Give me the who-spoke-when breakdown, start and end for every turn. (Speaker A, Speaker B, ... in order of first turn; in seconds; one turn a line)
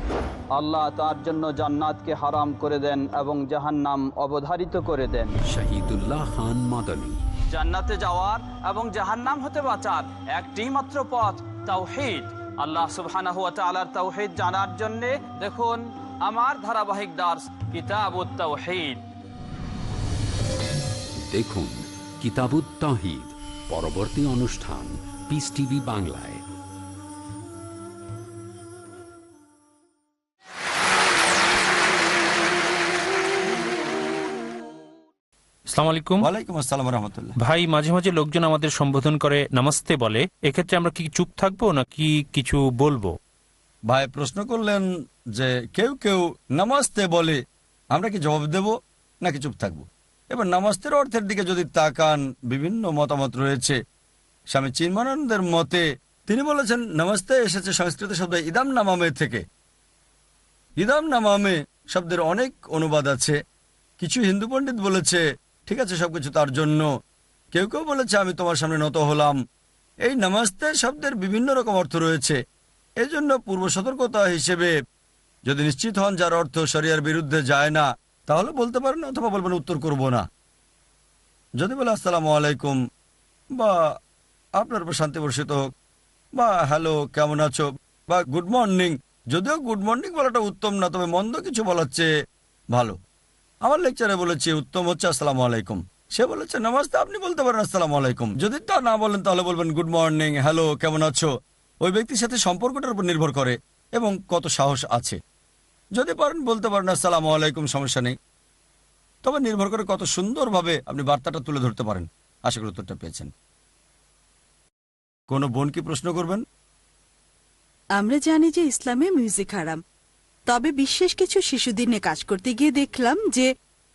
Speaker A: 0.5-5.4
Speaker B: 5.5-7.2
Speaker A: 7.5-19.0
Speaker B: 21.2-26.4
Speaker C: 35.7-36.3
Speaker D: 36.2-37.3
Speaker C: 37.4-43.1
Speaker D: 43.9-47.4
Speaker D: 47.9-53.8
Speaker D: 54.5-59.4
Speaker D: 60.8-63.4
Speaker D: 64.0-66.9
Speaker D: 67.5-69.4
Speaker D: 70.0-72.4
Speaker D: 73.0-74.7
Speaker D: 75.5-80.2
Speaker D: 81.6-82.8
Speaker D: 84.6-85.7
Speaker D: 86.4-92.1
Speaker D: 92.7-93.0
Speaker D: 93.6-101.3
Speaker D: 101.8-105.2
Speaker D: 106.0-108.2
Speaker D: 109.2-113.3
Speaker D: 115.3-116.4
Speaker E: 118.0-119.8
Speaker E: 120.5-123.5